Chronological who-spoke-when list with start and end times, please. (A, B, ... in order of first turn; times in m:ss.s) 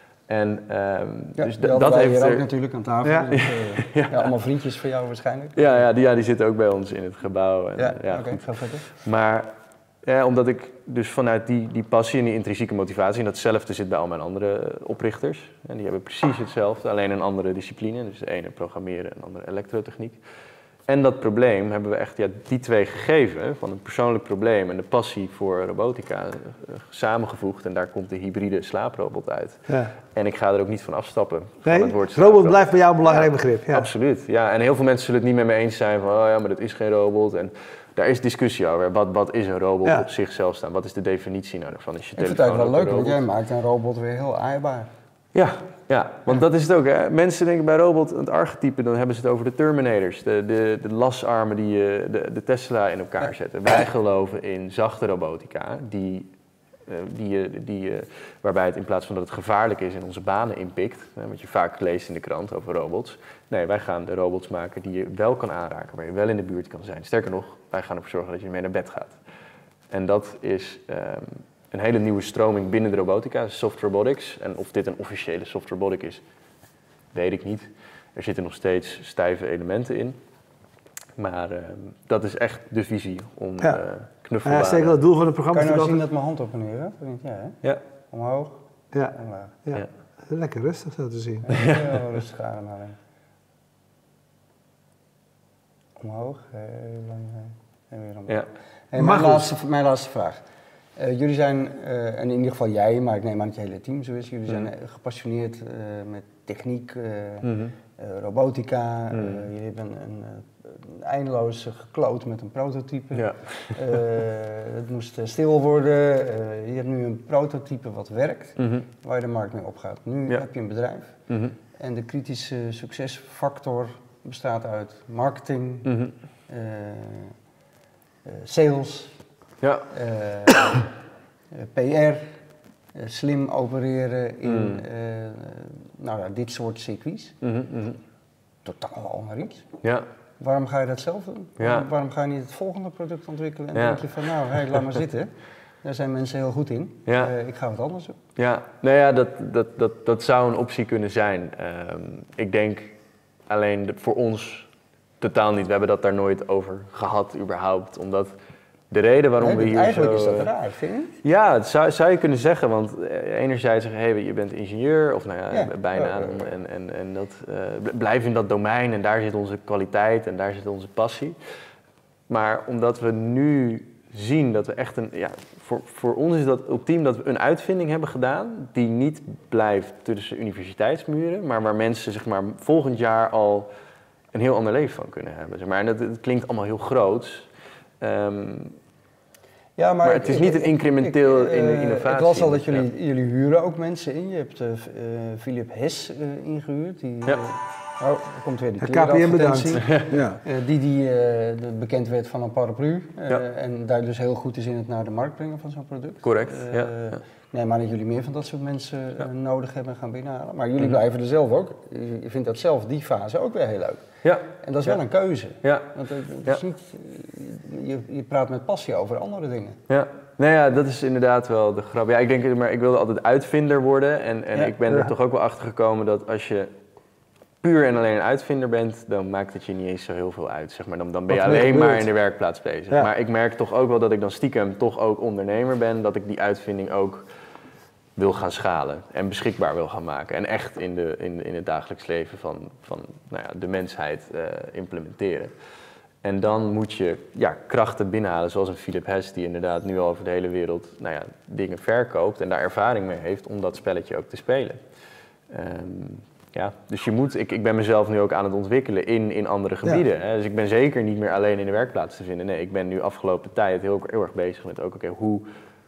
0:00.3-0:02.4 A
0:01.4-0:05.8 B
0:03.0-0:03.3 C
0:03.3-0:04.3 A
0:05.6-0:09.5 A
0:07.8-0:08.8 B
0:10.0-0:20.2 A
0:20.9-0:43.2 A
0:31.6-0:33.9 C
0:42.2-0:44.9 B
0:45.3-0:56.3 A
0:56.9-1:09.2 A
1:09.9-1:16.2 A
1:17.1-1:20.2 A
1:21.2-1:25.0 A
1:24.4-1:26.0 C
1:25.5-1:27.6 B
1:28.1-1:28.6 B
1:28.9-1:31.5 C
1:29.1-1:29.6 B
1:31.4-1:33.0 B
1:31.5-1:31.9 A
1:36.0-1:40.4 B
1:39.0-1:39.5 C
1:41.0-2:01.1 B
1:47.4-1:47.7 A
1:49.1-1:49.4 A
1:53.1-1:53.8 A
1:58.6-1:58.8 A
2:01.3-2:01.6 A
2:01.8-2:05.9 B
2:05.8-2:06.1 A
2:06.5-2:07.3 B
2:08.2-2:09.1 B
2:09.6-2:09.9 A
2:09.9-2:10.9 B
2:11.5-2:12.4 B
2:12.9-2:17.3 B
2:14.4-2:14.8 A
2:17.4-2:18.0 A
2:18.6-2:19.6 B
2:20.4-2:25.3 B
2:21.6-2:21.9 A
2:23.7-2:24.1 A
2:25.8-2:28.2 B
2:27.0-2:27.3 A
2:28.4-2:32.9 A
2:33.5-2:34.7 A
2:35.2-2:38.3 A
2:38.9-2:40.5 A
2:39.4-2:41.1 B
2:41.2-2:51.4 A
2:45.5-2:46.4 B
2:52.3-3:03.7 A
3:04.3-3:07.5 A
3:08.0-3:08.8 A
3:09.8-3:39.8 B
3:10.0-3:12.9 A
3:18.8-3:20.4 C
3:19.8-3:20.1 A
3:26.2-3:27.2 A
3:34.2-3:34.9 A
3:35.6-3:35.9 A
3:39.9-3:46.7 A
3:47.6-3:57.2 A
3:51.3-3:52.0 C
3:58.2-4:05.5 A
4:06.2-4:14.8 A
4:15.5-4:25.4 A